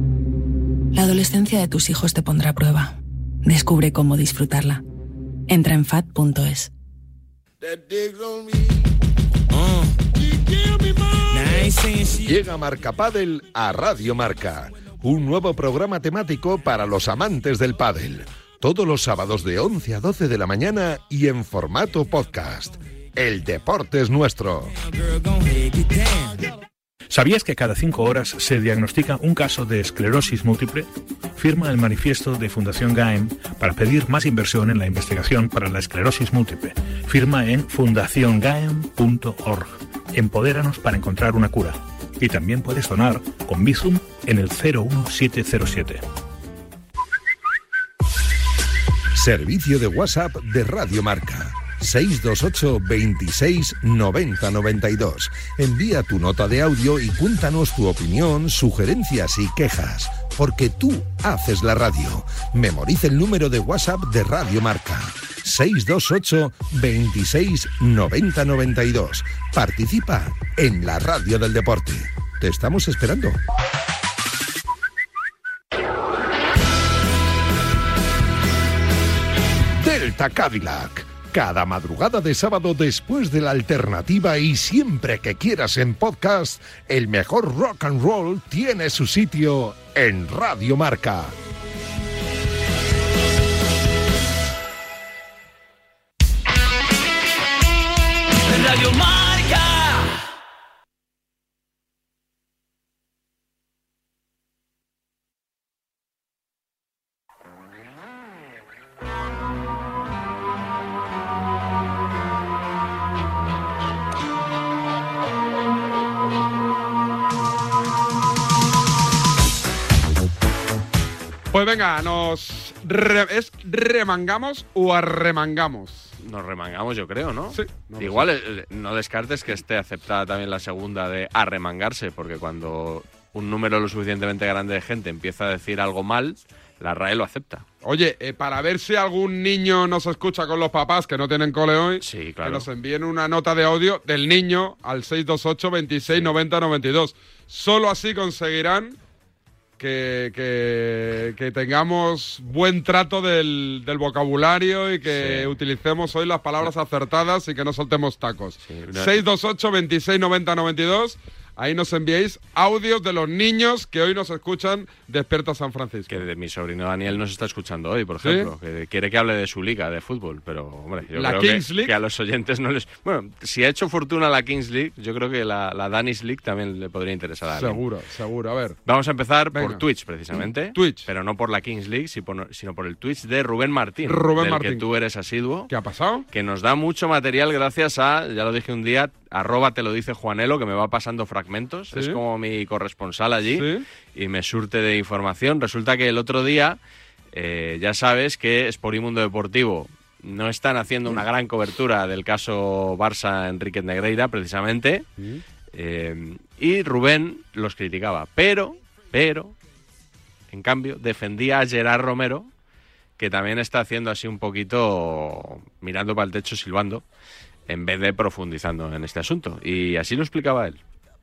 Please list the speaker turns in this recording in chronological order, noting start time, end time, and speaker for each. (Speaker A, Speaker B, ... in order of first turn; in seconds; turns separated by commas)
Speaker A: 0.9-4.8, Speaker A: 5.5-6.7, Speaker B: 12.2-24.8, Speaker C: 27.1-46.0, Speaker B: 49.1-73.4, Speaker B: 79.8-91.4, Speaker D: 121.5-126.1, Speaker E: 126.2-137.7, Speaker D: 127.5-128.3, Speaker D: 137.8-149.0, Speaker E: 142.0-142.7, Speaker D: 149.8-166.2, Speaker E: 155.1-155.6, Speaker E: 158.6-159.2, Speaker E: 166.1-177.8, Speaker D: 168.2-168.5, Speaker D: 171.2-171.9, Speaker D: 177.5-178.8, Speaker E: 178.8-185.7, Speaker D: 179.5-179.8, Speaker D: 180.7-181.1, Speaker D: 184.1-184.8, Speaker D: 185.7-186.3, Speaker E: 186.3-196.8, Speaker D: 191.9-192.2, Speaker D: 193.6-193.8, Speaker E: 197.3-205.1, Speaker D: 205.2-205.4, Speaker E: 205.7-209.6, Speaker E: 210.5-212.5, Speaker E: 213.2-217.0, Speaker E: 217.7-220.8